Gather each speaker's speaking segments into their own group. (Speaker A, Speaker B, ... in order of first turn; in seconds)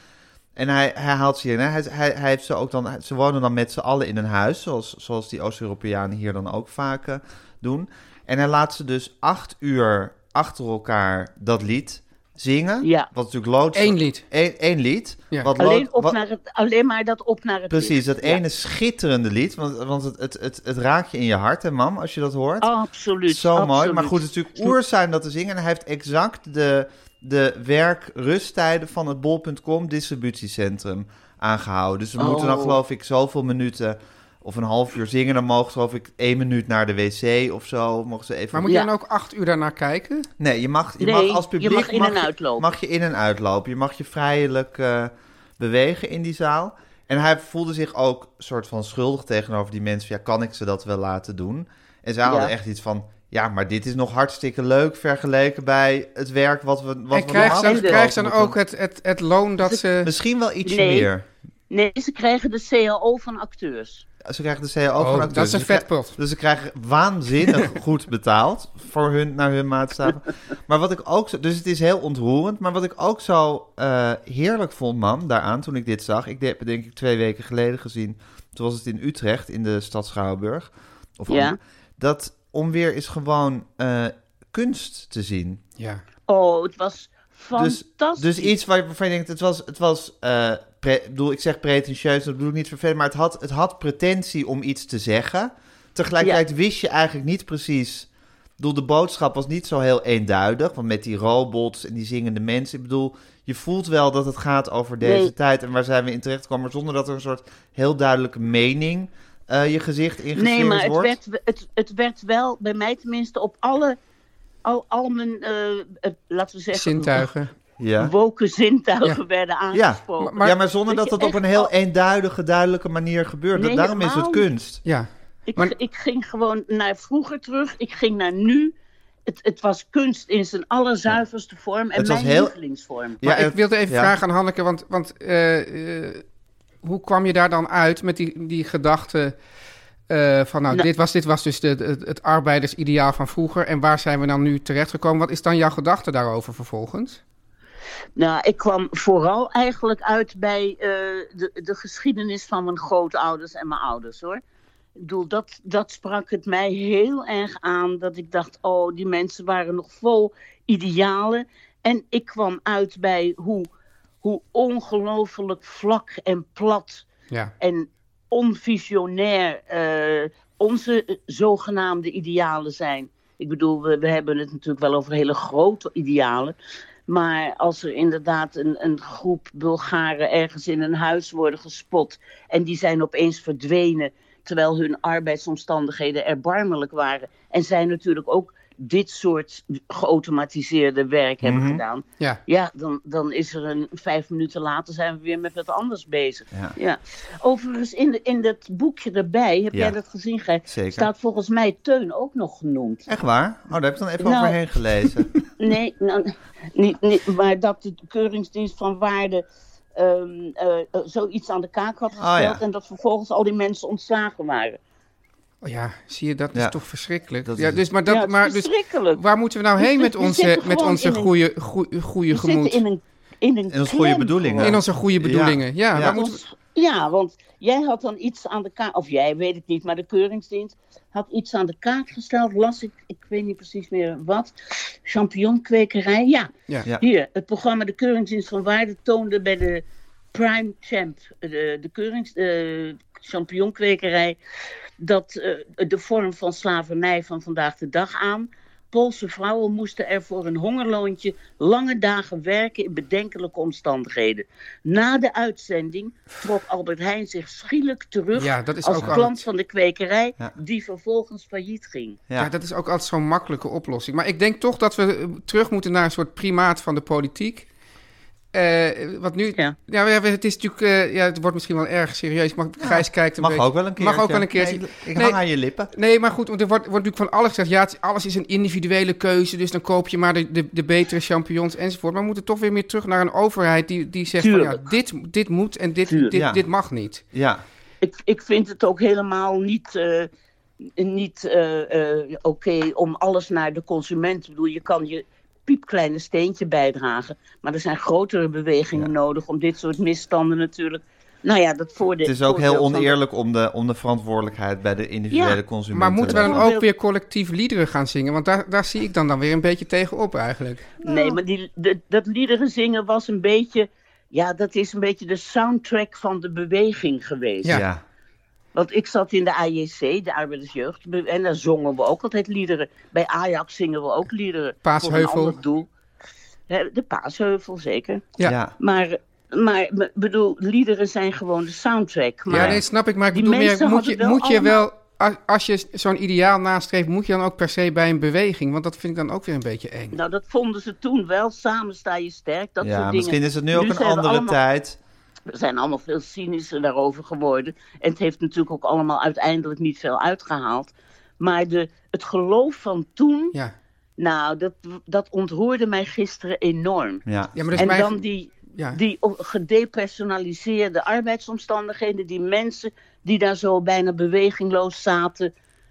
Speaker A: 0.6-16.2, 17.7-22.7, 23.3-38.7, 40.4-58.6, 60.0-61.3, 64.2-85.6, 87.5-98.1, 98.6-111.2, 117.8-118.1, 119.7-124.8, 131.9-132.5, 133.2-134.2, 191.4-191.8, 200.7-201.1, 203.1-205.4, 212.2-212.6, 217.4-217.8, 223.7-226.2, 272.8-275.9, 286.3-286.6, 287.3-287.6, 302.2-306.7, 317.6-318.0, 328.4-328.7, 332.5-332.8, 342.8-345.0, 357.2-357.9
Speaker B: 12.8-13.1, 15.6-18.4, 22.6-24.7, 32.2-32.8, 41.0-42.6, 52.2-52.5, 57.4-58.0, 60.6-61.1, 61.7-64.0, 81.3-81.6, 86.3-88.5, 105.0-105.3, 110.3-114.0, 114.6-117.3, 118.0-121.7, 123.5-124.4, 125.5-128.7, 129.2-133.2, 148.2-154.4, 155.0-163.7, 164.2-167.1, 167.6-176.5, 177.1-203.1, 204.2-204.6, 205.4-209.4, 209.9-214.8, 218.1-219.2, 219.8-221.3, 222.3-224.8, 225.9-244.4, 245.0-262.2, 284.4-284.9, 286.1-286.3, 288.0-290.3, 291.0-303.1, 305.3-305.6, 306.3-306.9, 311.0-317.8, 318.7-325.9, 326.7-332.8, 333.3-334.8, 340.1-344.6, 345.5-353.6, 354.2-357.2, 357.8-365.5
Speaker C: 13.7-14.2, 38.5-40.3, 57.1-60.1, 65.0-66.2, 85.8-86.0, 116.7-117.5, 120.2-120.5, 124.8-125.7, 133.2-136.2, 136.8-139.4, 140.1-147.2, 215.6-222.8, 224.6-226.4, 258.4-259.5, 262.4-267.7, 268.5-275.4, 275.9-287.2, 305.9-310.9, 324.8-325.6, 332.5-340.1, 357.5-358.2, 358.7-359.0